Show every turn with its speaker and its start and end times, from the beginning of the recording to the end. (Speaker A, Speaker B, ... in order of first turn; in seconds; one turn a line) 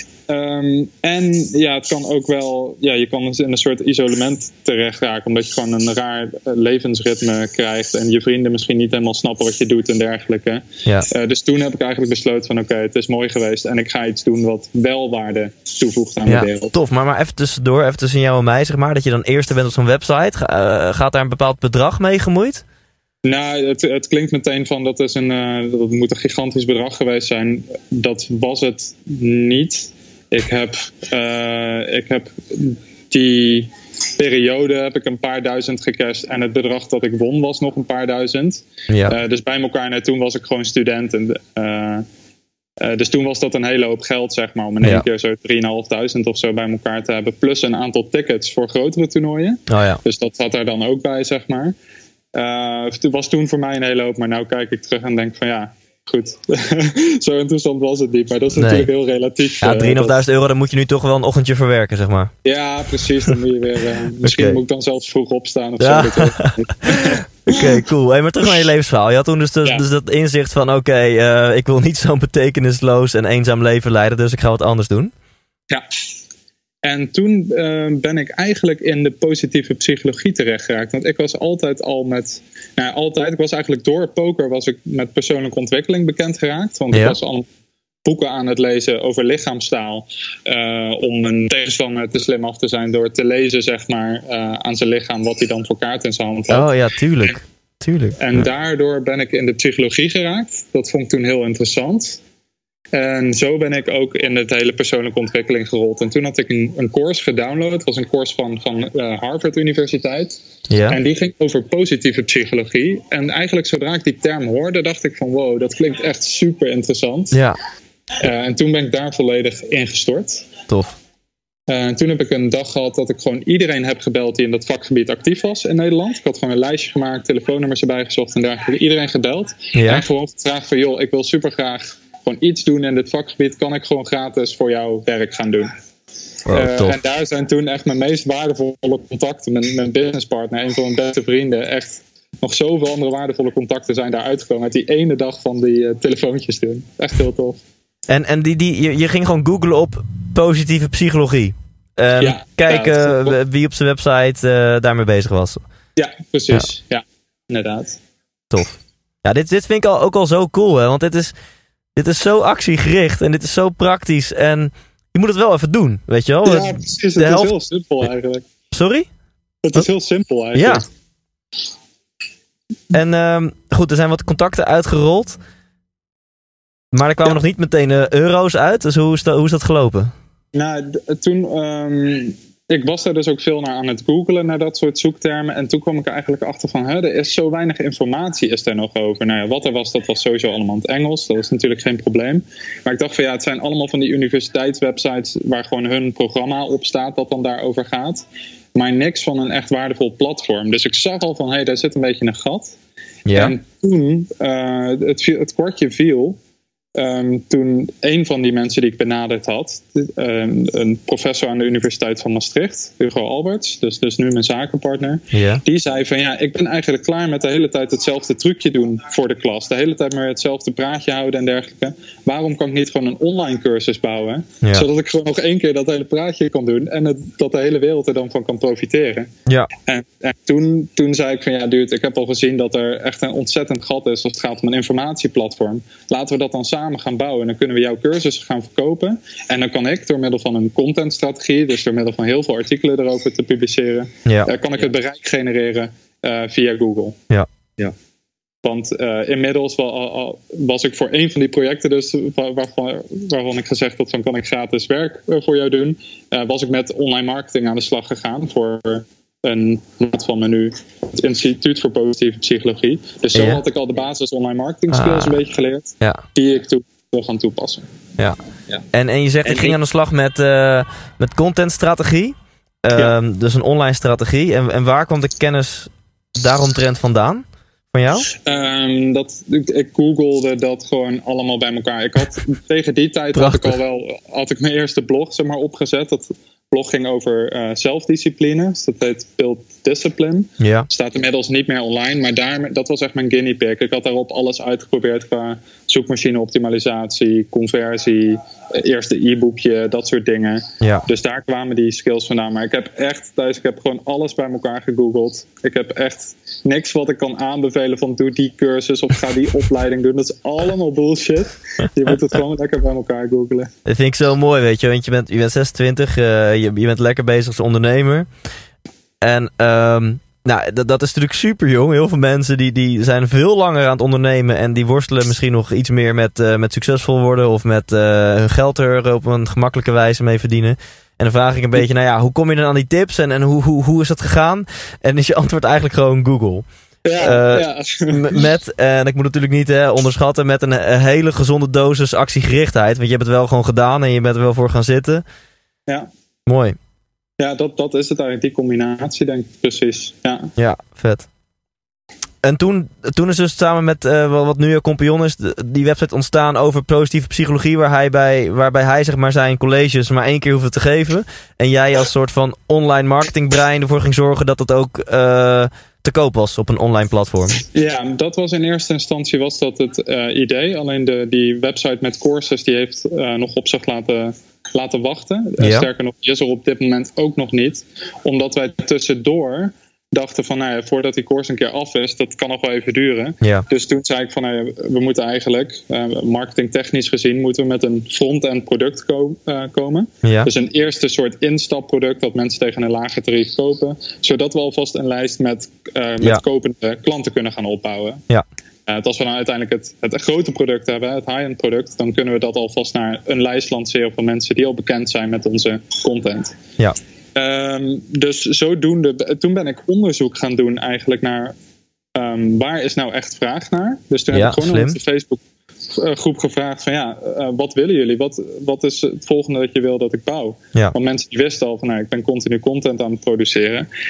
Speaker A: 0.3-16.7
Speaker B: 16.2-22.6
Speaker A: 23.2-42.0
Speaker B: 38.9-39.2
Speaker A: 42.8-51.7
Speaker B: 49.7-50.0
Speaker A: 52.3-60.2
Speaker B: 58.6-58.9
Speaker B: 59.6-62.3
Speaker A: 62.4-67.8
Speaker B: 64.2-64.6
Speaker B: 65.8-75.1
Speaker A: 76.8-87.5
Speaker B: 86.9-87.2
Speaker A: 88.0-96.7
Speaker B: 96.5-98.5
Speaker A: 98.2-102.2
Speaker A: 102.9-117.4
Speaker B: 110.7-111.0
Speaker B: 117.3-117.6
Speaker A: 118.2-120.5
Speaker B: 120.7-121.0
Speaker A: 121.7-135.7
Speaker B: 129.7-130.0
Speaker B: 136.4-137.0
Speaker A: 136.5-147.6
Speaker B: 148.1-155.6
Speaker A: 152.2-153.4
Speaker A: 155.9-158.0
Speaker B: 158.5-161.3
Speaker B: 161.9-167.5
Speaker A: 166.4-168.4
Speaker B: 168.7-169.1
Speaker A: 169.6-170.9
Speaker B: 170.5-170.8
Speaker B: 172.9-175.4
Speaker B: 176.9-180.1
Speaker A: 180.5-198.2
Speaker A: 198.7-202.8
Speaker B: 203.2-203.5
Speaker A: 203.3-206.4
Speaker A: 206.9-247.2
Speaker B: 215.3-215.6
Speaker B: 224.6-224.9
Speaker B: 244.2-244.5
Speaker A: 248.6-267.9
Speaker B: 263.3-263.6
Speaker B: 264.9-265.4
Speaker B: 268.9-278.3
Speaker A: 269.4-269.8
Speaker A: 278.3-313.7
Speaker B: 283.3-283.8
Speaker B: 290.6-290.9
Speaker B: 300.8-301.1
Speaker B: 313.9-318.3
Speaker B: 319.2-336.6
Speaker A: 337.0-338.4
Speaker B: 337.2-345.2
Speaker B: 346.5-346.8
Speaker A: 347.4-350.5
Speaker B: 350.6-351.3
Speaker B: 352.4-367.6
Speaker A: 367.7-398.2
Speaker B: 375.6-375.9
Speaker B: 383.4-383.6
Speaker B: 390.2-390.5
Speaker A: 398.9-406.6
Speaker A: 407.4-411.5
Speaker A: 412.1-423.9
Speaker B: 414.3-415.0